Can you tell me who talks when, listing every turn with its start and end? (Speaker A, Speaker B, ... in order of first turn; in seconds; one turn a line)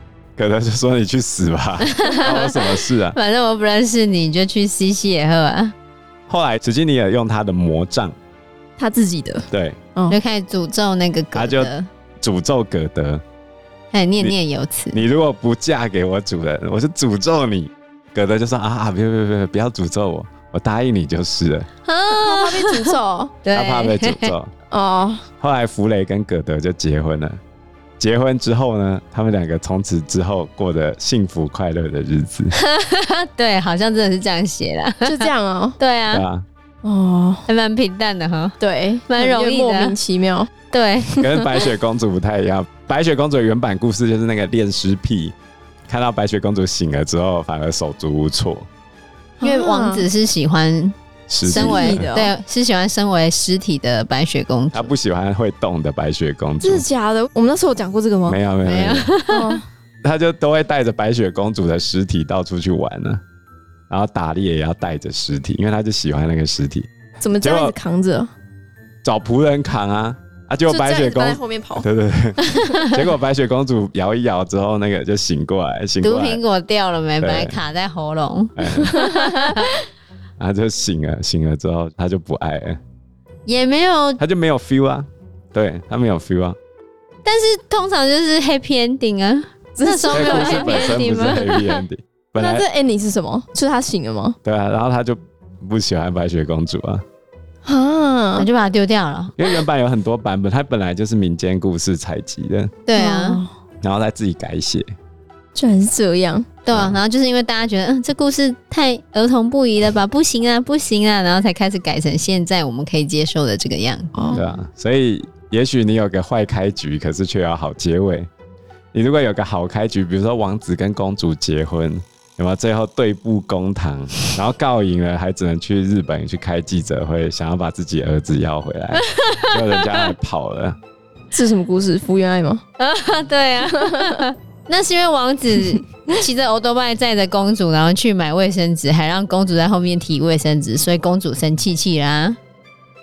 Speaker A: 0.3-3.2
Speaker B: 1.8-5.7
Speaker A: 6.3-8.1
Speaker C: 8.8-10.2
Speaker A: 9.5-9.8
Speaker B: 10.1-11.9
Speaker A: 11.3-13.2
Speaker B: 13.9-15.0
Speaker A: 14.9-21.7
Speaker B: 21.9-24.3
Speaker C: 22.1-23.3
Speaker A: 23.5-24.5
Speaker C: 24.7-25.2
Speaker A: 25.4-27.4
Speaker A: 28.0-32.5
Speaker B: 32.5-36.2
Speaker C: 35.0-35.8
Speaker A: 36.1-36.5
Speaker C: 36.8-37.5
Speaker B: 37.5-38.6
Speaker C: 38.6-40.5
Speaker B: 39.1-39.9
Speaker B: 40.7-41.2
Speaker C: 41.1-41.4
Speaker A: 41.2-45.3
Speaker A: 45.9-48.7
Speaker C: 49.4-50.1
Speaker B: 49.4-50.9
Speaker A: 51.3-52.1
Speaker B: 51.5-54.9
Speaker C: 51.5-52.3
Speaker A: 54.7-56.9
Speaker C: 56.6-58.4
Speaker A: 58.2-59.1
Speaker B: 58.6-59.6
Speaker C: 59.3-59.6
Speaker A: 60.0-63.2
Speaker A: 63.9-66.9
Speaker C: 67.2-68.3
Speaker A: 67.4-67.7
Speaker A: 69.0-76.4
Speaker C: 70.7-71.9
Speaker B: 72.6-72.9
Speaker B: 76.0-79.7
Speaker A: 77.2-77.6
Speaker A: 78.6-79.0
Speaker C: 78.9-79.5
Speaker A: 80.4-82.8
Speaker B: 83.5-84.2
Speaker A: 84.2-86.6
Speaker B: 87.2-91.7
Speaker C: 89.8-91.5
Speaker A: 90.1-92.7
Speaker C: 92.4-94.3
Speaker A: 94.4-97.0
Speaker C: 97.6-98.5
Speaker B: 98.4-99.4
Speaker A: 99.4-102.7
Speaker B: 102.8-103.4
Speaker C: 103.0-103.5
Speaker A: 103.8-104.8
Speaker C: 105.5-106.5
Speaker B: 106.6-114.5
Speaker A: 106.7-107.0
Speaker C: 114.1-114.4
Speaker A: 114.3-118.3
Speaker A: 118.9-130.8
Speaker B: 129.0-130.1
Speaker C: 131.3-132.6
Speaker B: 132.8-142.4
Speaker C: 133.8-134.2